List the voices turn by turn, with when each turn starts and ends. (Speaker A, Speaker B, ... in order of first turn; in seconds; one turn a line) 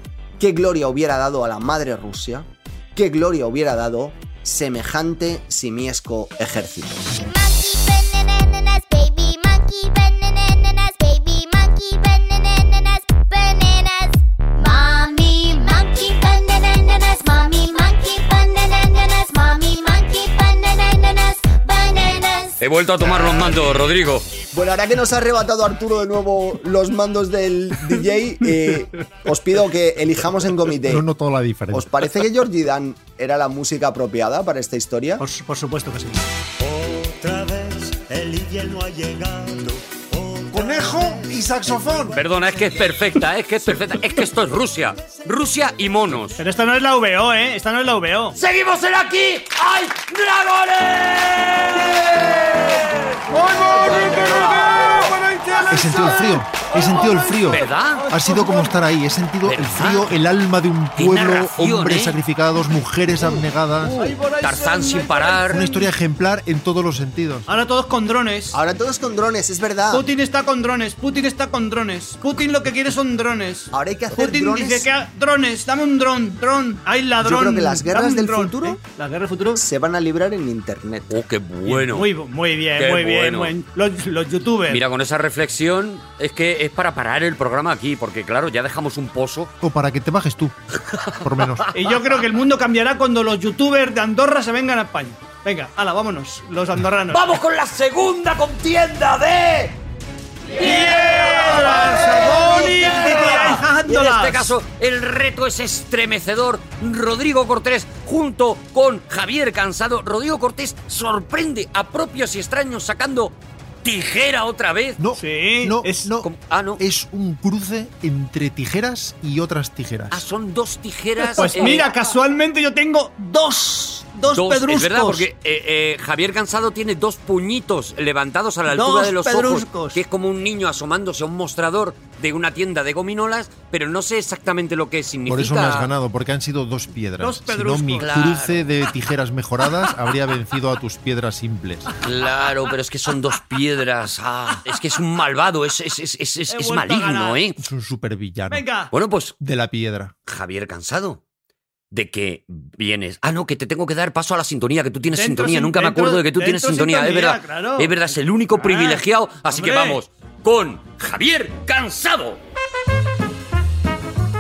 Speaker A: 0.4-7.1
Speaker B: 7.2-22.6
Speaker C: 22.6-24.3
Speaker A: 24.5-31.0
Speaker D: 30.9-32.1
Speaker A: 31.7-35.2
Speaker E: 35.2-36.2
Speaker F: 36.6-43.0
Speaker D: 40.5-42.1
Speaker C: 42.1-46.4
Speaker E: 46.4-48.4
Speaker C: 48.4-55.0
Speaker F: 53.4-56.0
Speaker E: 53.5-57.4
Speaker D: 55.7-64.1
Speaker F: 56.6-56.9
Speaker C: 57.5-58.1
Speaker E: 58.2-58.7
Speaker C: 59.5-60.1
Speaker C: 61.0-62.2
Speaker E: 63.9-65.5
Speaker C: 64.4-65.7
Speaker D: 65.5-67.5
Speaker E: 67.5-68.6
Speaker A: 68.5-70.1
Speaker E: 69.9-79.6
Speaker A: 73.7-74.9
Speaker A: 77.2-78.8
Speaker A: 79.6-81.2
Speaker C: 81.1-82.1
Speaker E: 81.7-84.8
Speaker C: 82.8-83.5
Speaker C: 84.7-89.5
Speaker D: 89.6-90.6
Speaker C: 90.9-91.7
Speaker D: 91.2-91.7
Speaker E: 91.7-97.4
Speaker C: 97.1-99.8
Speaker E: 100.6-104.5
Speaker C: 100.6-115.0
Speaker D: 115.0-120.2
Speaker E: 115.2-116.1
Speaker C: 116.2-116.8
Speaker C: 120.1-121.9
Speaker E: 121.3-125.3
Speaker C: 124.3-135.9
Speaker E: 128.7-130.0
Speaker D: 135.3-141.9
Speaker E: 137.2-138.1
Speaker C: 138.0-138.7
Speaker C: 142.0-147.6
Speaker E: 146.5-147.4
Speaker D: 147.6-148.6
Speaker E: 148.5-148.9
Speaker C: 148.9-149.4
Speaker D: 149.4-150.1
Speaker C: 150.3-151.2
Speaker C: 151.9-162.4
Speaker E: 155.1-160.0